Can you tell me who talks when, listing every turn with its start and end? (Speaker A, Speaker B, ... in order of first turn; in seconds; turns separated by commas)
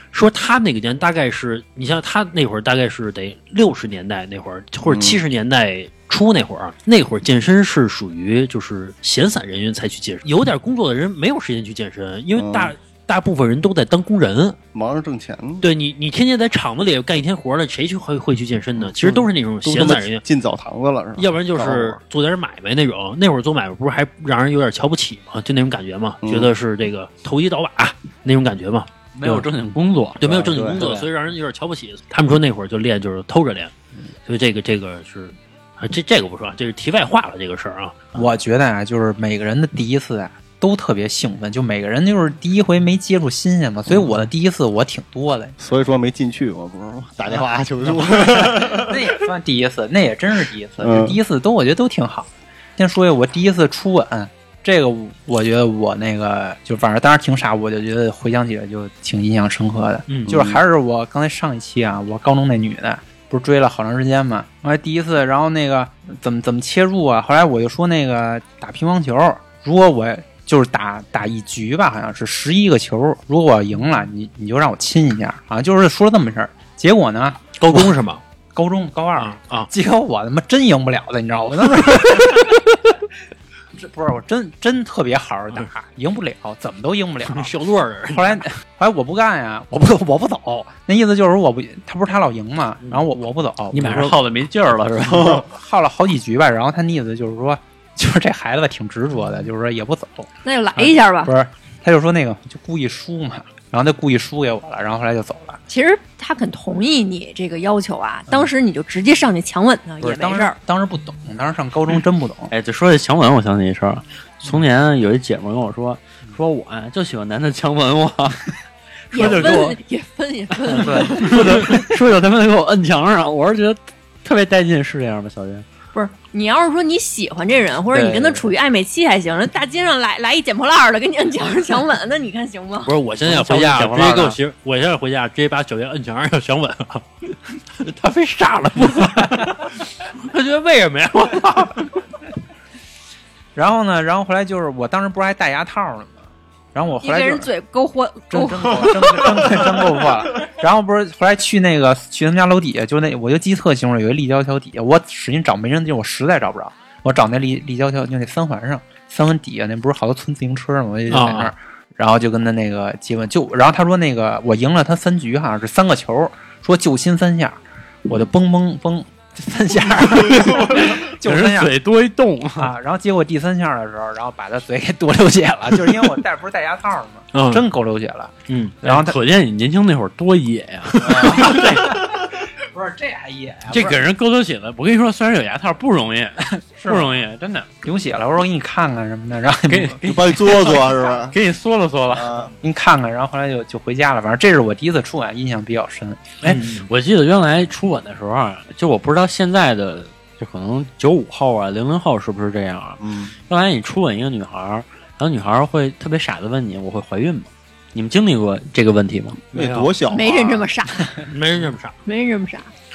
Speaker A: 0.1-14.6, Speaker B: 4.9-5.2, Speaker B: 12.4-12.7, Speaker B: 14.7-15.7, Speaker A: 15.6-20.2, Speaker B: 18.8-22.0, Speaker A: 21.2-28.9, Speaker B: 26.2-26.5, Speaker C: 29.2-31.1, Speaker A: 30.2-33.7, Speaker B: 30.2-30.8, Speaker A: 34.3-38.2, Speaker D: 38.1-45.6, Speaker B: 45.6-49.1, Speaker D: 47.3-78.0, Speaker B: 50.8-51.2, Speaker B: 60.3-60.6, Speaker A: 77.6-78.2, Speaker D: 78.5-83.0, Speaker A: 79.2-79.7, Speaker D: 83.7-87.5, Speaker A: 87.3-88.5, Speaker D: 88.1-94.2, Speaker C: 93.7-95.4, Speaker D: 95.1-105.6, Speaker B: 95.2-95.4, Speaker E: 100.5-101.3, Speaker E: 105.7-110.6, Speaker D: 110.0-112.5, Speaker C: 112.5-118.5, Speaker C: 119.1-119.8, Speaker E: 119.1-121.7, Speaker C: 120.6-125.7, Speaker E: 125.9-132.9, Speaker D: 127.9-128.5, Speaker A: 132.8-142.0, Speaker C: 133.2-134.4, Speaker D: 143.6-147.5, Speaker E: 147.0-149.3, Speaker D: 148.3-171.8, Speaker A: 161.1-161.5, Speaker C: 170.6-172.7, Speaker D: 172.6-179.2, Speaker A: 177.3-177.7, Speaker A: 178.5-178.8, Speaker C: 178.8-182.0, Speaker A: 181.0-181.7, Speaker D: 181.0-184.0, Speaker C: 183.7-187.7, Speaker D: 186.7-187.2, Speaker D: 187.8-190.0, Speaker C: 189.7-192.4, Speaker B: 190.0-191.4, Speaker B: 192.1-192.5, Speaker D: 192.6-196.3, Speaker C: 196.4-209.4, Speaker A: 196.4-196.9, Speaker B: 203.0-203.3, Speaker A: 209.5-209.9, Speaker B: 209.5-210.7, Speaker E: 210.1-211.3, Speaker A: 211.2-212.0, Speaker E: 212.1-212.7